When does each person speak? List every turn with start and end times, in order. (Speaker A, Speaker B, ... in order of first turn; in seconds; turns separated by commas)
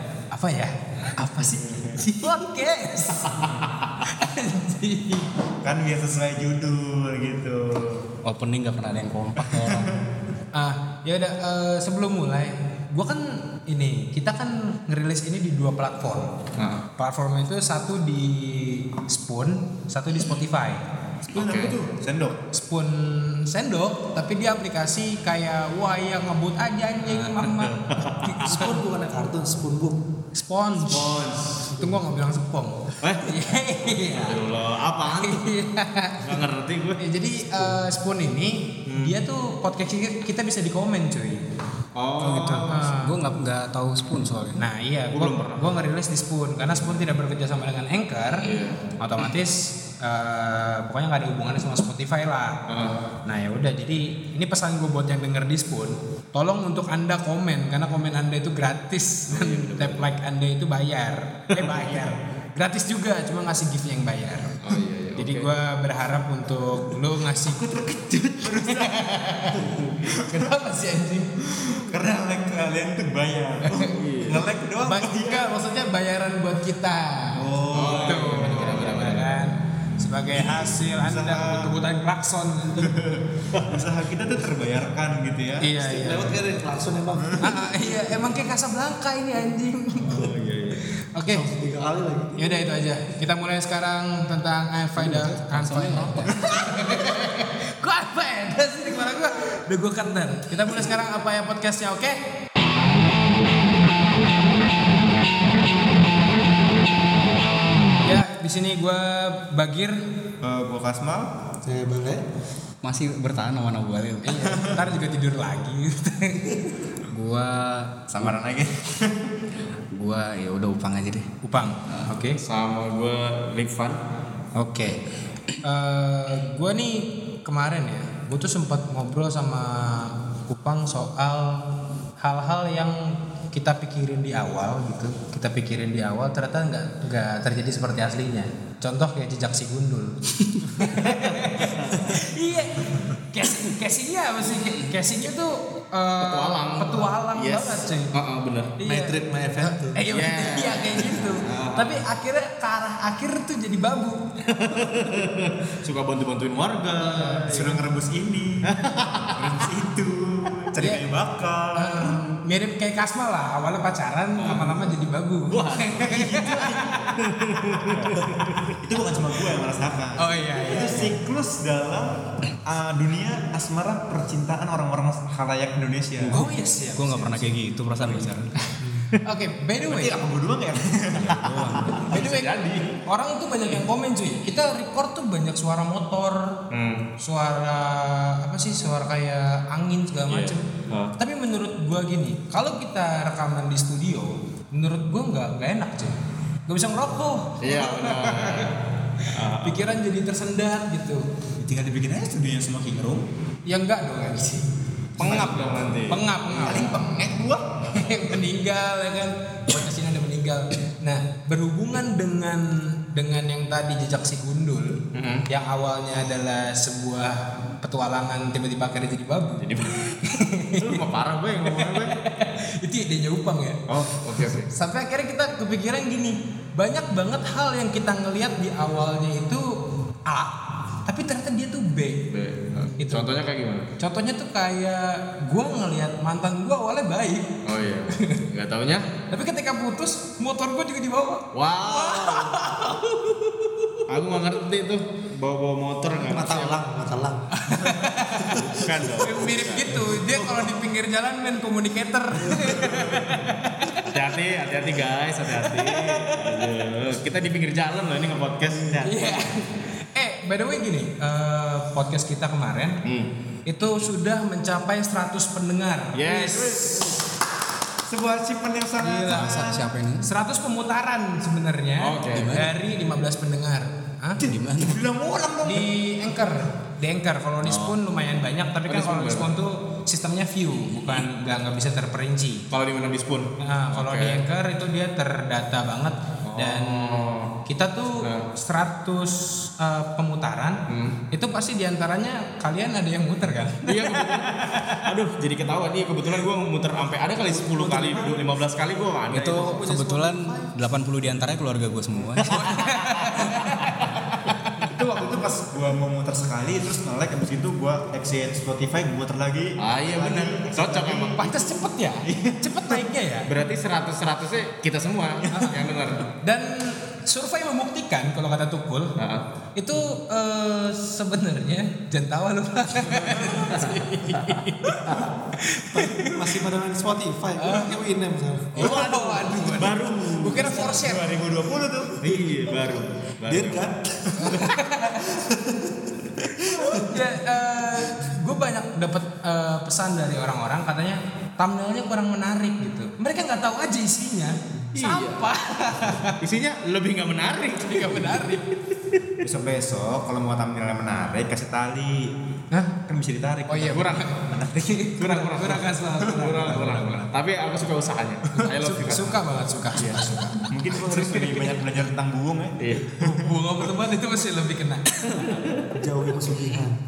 Speaker A: 0.3-5.3, Speaker B: 1.4-2.0, Speaker C: 3.4-3.7, Speaker B: 5.6-8.1, Speaker D: 8.2-9.9, Speaker B: 9.4-10.0, Speaker A: 10.6-16.4, Speaker C: 16.6-16.9, Speaker A: 17.0-20.8, Speaker C: 21.3-21.8, Speaker B: 21.3-22.4, Speaker A: 22.5-28.9, Speaker C: 27.4-28.6, Speaker E: 28.4-30.0, Speaker A: 30.4-31.2, Speaker C: 30.9-31.7, Speaker A: 31.8-34.4, Speaker C: 34.0-35.5, Speaker A: 35.1-36.4, Speaker C: 36.2-37.0, Speaker A: 37.0-41.4, Speaker C: 38.9-39.1, Speaker C: 42.0-42.8, Speaker D: 42.2-44.6, Speaker A: 42.5-43.1, Speaker A: 44.6-48.5, Speaker C: 45.1-45.6, Speaker C: 48.4-48.8, Speaker A: 49.0-52.6, Speaker C: 52.7-53.0, Speaker A: 53.3-64.6, Speaker C: 59.3-60.0, Speaker C: 61.5-61.9, Speaker C: 64.6-65.5, Speaker A: 65.2-67.7, Speaker B: 67.5-70.4, Speaker A: 68.5-69.7, Speaker C: 69.6-70.2, Speaker A: 70.2-71.3, Speaker B: 71.5-75.5, Speaker A: 73.7-74.0, Speaker C: 73.9-74.5, Speaker A: 74.8-82.9, Speaker B: 77.4-79.2, Speaker C: 77.7-79.5, Speaker B: 80.4-81.8, Speaker B: 82.8-85.7, Speaker C: 83.5-83.8, Speaker A: 85.6-86.4, Speaker E: 85.8-87.6, Speaker A: 87.4-90.2, Speaker C: 90.0-90.8, Speaker A: 91.2-91.5, Speaker E: 91.3-92.5, Speaker A: 92.4-102.2, Speaker D: 95.0-96.3, Speaker A: 108.0-110.0, Speaker B: 110.4-111.3, Speaker E: 111.7-112.2, Speaker D: 112.8-114.5, Speaker A: 114.2-116.6, Speaker B: 114.4-114.8, Speaker D: 117.1-118.4, Speaker B: 118.2-119.3, Speaker D: 119.9-121.3, Speaker A: 121.4-122.4, Speaker C: 122.4-124.0, Speaker A: 124.6-125.0, Speaker A: 125.6-131.6, Speaker A: 132.2-148.1, Speaker C: 140.9-141.9, Speaker C: 146.2-148.8, Speaker A: 148.8-154.2, Speaker E: 148.8-150.2, Speaker C: 150.1-152.0, Speaker C: 154.5-157.8, Speaker A: 157.0-157.7, Speaker B: 157.4-158.7, Speaker C: 158.7-159.5, Speaker B: 159.3-162.3, Speaker A: 160.8-161.0, Speaker A: 161.8-166.8, Speaker C: 164.4-164.8, Speaker C: 165.5-166.1, Speaker B: 166.0-176.4, Speaker C: 167.2-168.8, Speaker A: 170.2-171.1, Speaker D: 176.2-178.5, Speaker A: 176.3-177.5, Speaker A: 179.2-180.2, Speaker B: 179.8-182.0, Speaker D: 181.1-182.3, Speaker C: 182.1-183.0, Speaker A: 182.1-182.5, Speaker A: 183.1-186.6, Speaker C: 186.7-187.0, Speaker A: 187.2-190.6, Speaker C: 190.3-191.1, Speaker A: 191.2-196.1, Speaker A: 196.7-201.2, Speaker C: 197.6-199.9, Speaker B: 201.6-203.2, Speaker A: 203.7-204.7, Speaker C: 205.2-206.9, Speaker A: 205.2-207.3, Speaker B: 205.2-206.0, Speaker B: 206.6-207.7, Speaker A: 207.9-221.0, Speaker C: 215.1-215.5, Speaker C: 219.6-220.1, Speaker C: 220.8-222.1, Speaker A: 221.7-223.8, Speaker C: 223.9-224.7, Speaker A: 224.4-229.7, Speaker A: 230.3-232.2, Speaker C: 232.3-233.9, Speaker A: 233.0-233.3, Speaker A: 234.0-237.5, Speaker C: 237.7-239.1, Speaker A: 239.3-243.2, Speaker C: 241.5-242.6, Speaker C: 244.1-246.8, Speaker E: 246.2-247.4, Speaker A: 247.6-248.7, Speaker E: 248.4-249.2, Speaker C: 248.7-249.9, Speaker A: 249.2-254.1, Speaker E: 249.9-250.6, Speaker E: 252.4-252.8, Speaker C: 254.1-259.1, Speaker A: 255.6-256.6, Speaker A: 259.0-263.0, Speaker A: 263.7-267.2, Speaker C: 266.1-267.1, Speaker B: 268.1-269.8, Speaker A: 269.0-274.4, Speaker D: 269.3-270.3, Speaker C: 272.0-272.5, Speaker D: 272.3-272.7, Speaker B: 274.4-275.9, Speaker D: 274.4-275.0, Speaker A: 275.6-282.6, Speaker C: 277.6-278.0, Speaker C: 278.9-279.5, Speaker C: 282.7-284.4, Speaker A: 283.6-290.8, Speaker C: 286.4-287.5, Speaker C: 288.2-288.5, Speaker C: 290.9-291.2, Speaker A: 291.3-295.0, Speaker C: 293.9-299.6, Speaker E: 297.5-298.5, Speaker D: 299.3-302.7, Speaker E: 299.3-300.7, Speaker A: 302.5-304.9, Speaker C: 302.8-304.1, Speaker B: 304.8-311.4, Speaker C: 309.8-311.7, Speaker A: 311.1-313.5, Speaker B: 312.2-313.0, Speaker C: 313.5-316.3, Speaker A: 315.5-315.8, Speaker A: 316.4-319.1, Speaker C: 319.2-319.5, Speaker A: 319.8-326.5, Speaker C: 323.1-325.0, Speaker E: 325.9-328.9, Speaker A: 327.6-328.0, Speaker C: 328.8-330.9, Speaker A: 328.8-331.2, Speaker B: 330.6-332.2, Speaker C: 332.2-333.9, Speaker E: 333.5-337.2, Speaker A: 334.4-335.3, Speaker A: 336.8-346.4, Speaker C: 344.9-345.4, Speaker C: 346.4-348.5, Speaker A: 347.8-348.6, Speaker B: 349.4-352.3, Speaker B: 352.9-355.1, Speaker A: 353.7-357.3, Speaker C: 353.9-354.2, Speaker C: 355.2-359.4, Speaker A: 358.6-361.8, Speaker B: 360.7-363.5, Speaker A: 363.2-365.5, Speaker C: 365.3-365.9, Speaker E: 365.9-367.0